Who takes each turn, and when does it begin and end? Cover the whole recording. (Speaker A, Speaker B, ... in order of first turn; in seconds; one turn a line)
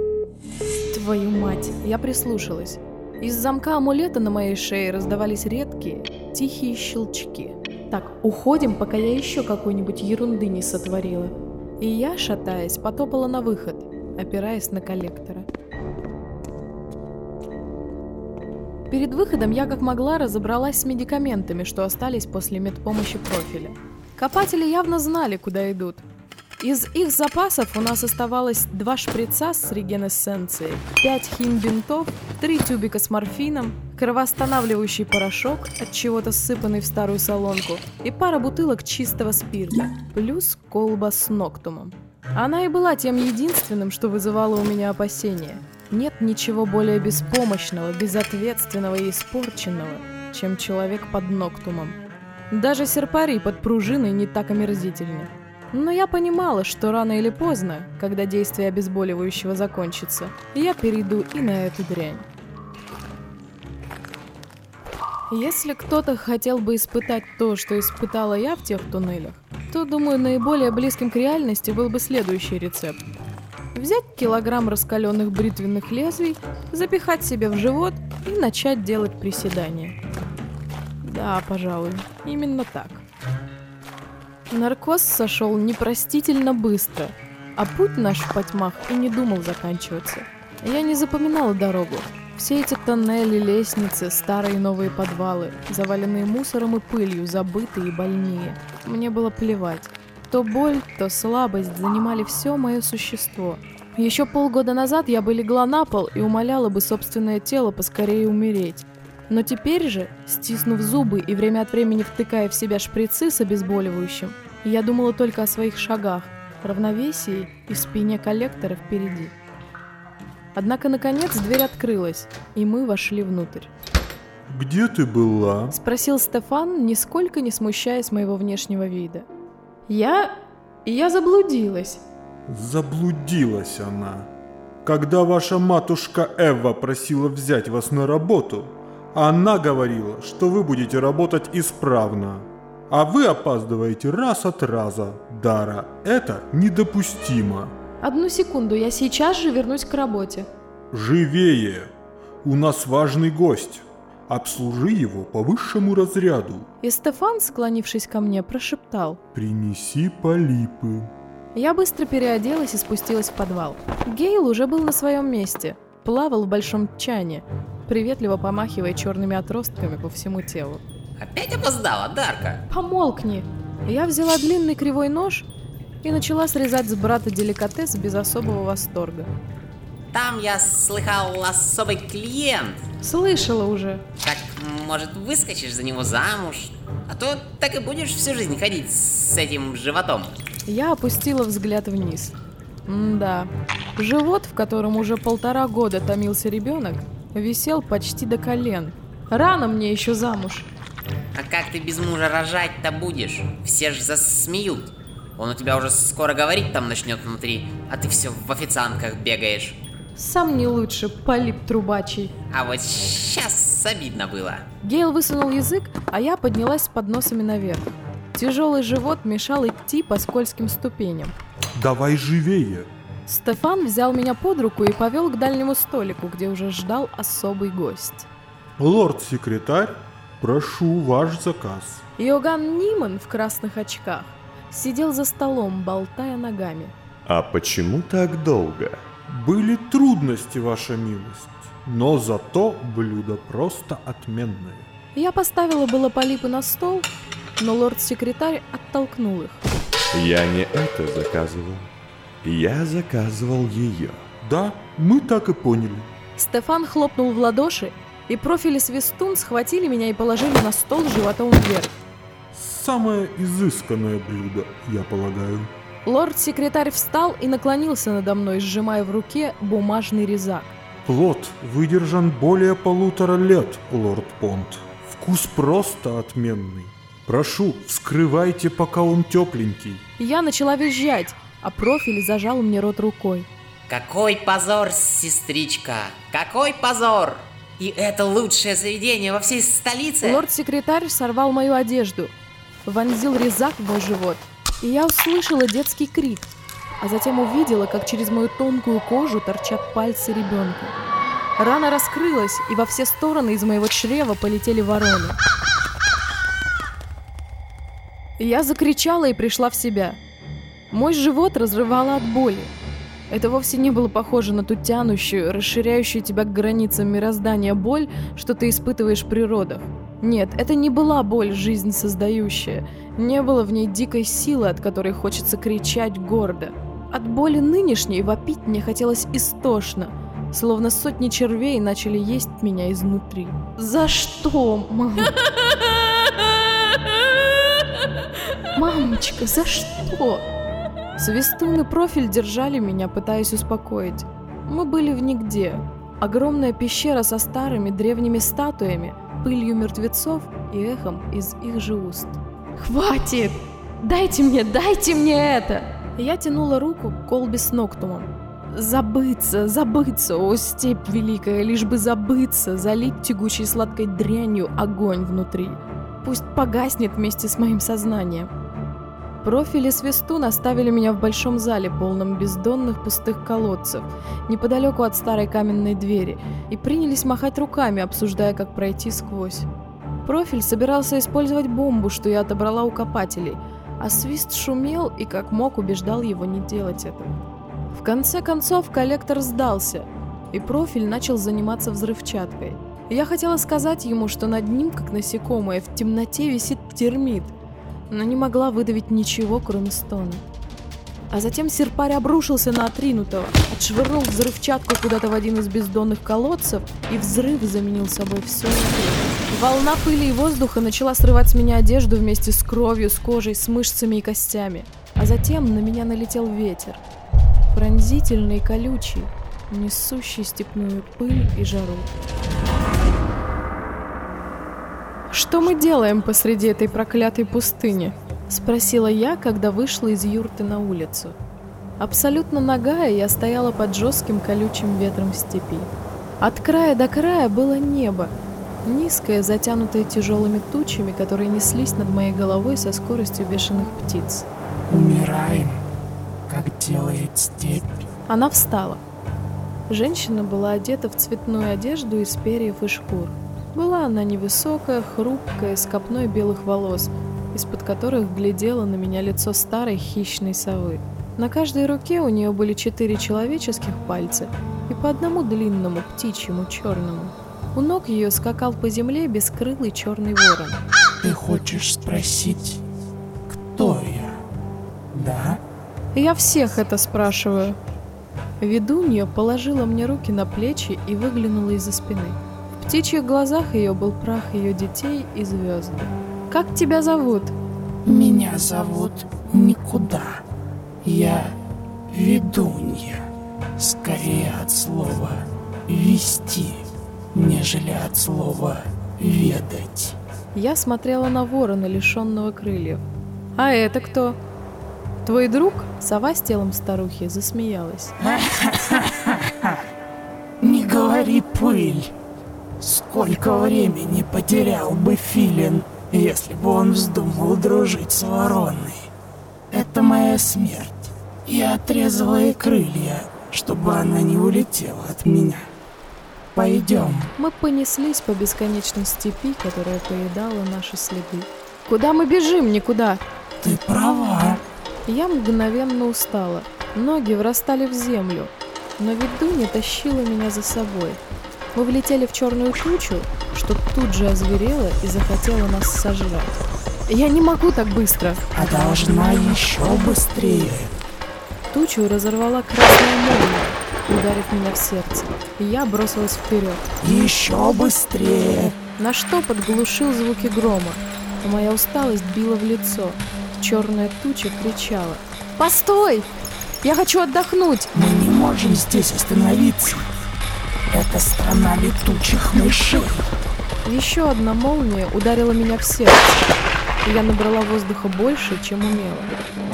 Speaker A: 0.9-15.5
Speaker A: 18.9-26.1
Speaker A: 26.6-52.0
Speaker A: 52.5-62.3
Speaker A: 65.3-73.0
Speaker A: 73.7-80.0
Speaker A: 81.0-83.0
Speaker A: 84.5-119.3
Speaker A: 120.5-123.7
Speaker B: 124.5-125.8
Speaker A: 125.7-129.3
Speaker A: 129.9-130.3
Speaker A: 130.8-132.0
Speaker B: 132.5-134.3
Speaker B: 134.8-147.8
Speaker A: 148.0-150.5
Speaker B: 150.9-156.7
Speaker A: 156.8-159.2
Speaker B: 159.3-161.1
Speaker A: 161.6-170.8
Speaker C: 171.2-172.7
Speaker A: 172.7-175.5
Speaker A: 176.0-179.3
Speaker C: 180.1-182.9
Speaker A: 183.0-184.0
Speaker C: 184.2-190.3
Speaker A: 190.7-192.4
Speaker A: 192.9-200.7
Speaker C: 201.3-209.8
Speaker A: 210.2-212.3
Speaker C: 212.5-214.7
Speaker A: 214.8-221.4
Speaker B: 221.8-222.9
Speaker A: 223.3-228.3
Speaker B: 228.8-232.0
Speaker A: 232.2-236.9
Speaker D: 237.3-239.0
Speaker B: 239.3-244.9
Speaker A: 245.2-249.6
Speaker D: 250.1-251.9
Speaker D: 252.4-254.2
Speaker B: 254.4-256.1
Speaker A: 256.4-261.9
Speaker B: 262.5-265.7
Speaker A: 266.1-270.8
Speaker B: 271.1-280.0
Speaker A: 280.2-283.5
Speaker C: 283.9-290.4
Speaker A: 290.2-292.3
Speaker A: 292.9-296.5
Speaker A: 297.0-301.0
Speaker A: 301.6-305.4
Speaker A: 308.4-310.2
Speaker A: 310.9-312.7
Speaker A: 313.3-335.5
Speaker A: 338.7-340.4
Speaker A: 341.2-368.5
Speaker A: 369.4-379.7
Speaker A: 380.2-387.4
Speaker A: 387.9-397.6
Speaker A: 398.1-400.4
Speaker A: 401.3-417.0
Speaker A: 417.7-422.1
Speaker A: 425.3-431.4
Speaker A: 432.0-438.3
Speaker A: 438.9-444.5
Speaker E: 444.9-445.8
Speaker E: 446.5-448.1
Speaker A: 448.3-449.0
Speaker A: 449.9-470.8
Speaker E: 471.2-472.8
Speaker E: 473.5-474.4
Speaker E: 475.1-475.6
Speaker A: 476.1-477.8
Speaker A: 478.6-487.6
Speaker E: 488.0-490.4
Speaker E: 491.0-491.6
Speaker E: 492.1-500.2
Speaker A: 500.6-503.0
Speaker A: 503.6-504.4
Speaker A: 505.2-508.2
Speaker E: 508.2-509.8
Speaker E: 510.6-512.1
Speaker E: 512.8-519.1
Speaker E: 519.7-525.7
Speaker E: 526.5-527.3
Speaker A: 527.4-533.2
Speaker E: 533.6-534.6
Speaker A: 535.1-541.2
Speaker A: 541.8-546.6
Speaker A: 547.1-548.5
Speaker E: 548.5-550.9
Speaker A: 551.7-556.9
Speaker E: 557.0-558.8
Speaker A: 559.0-566.3
Speaker A: 566.8-567.9
Speaker E: 567.9-570.1
Speaker E: 570.9-573.3
Speaker A: 573.9-576.4
Speaker A: 577.0-579.4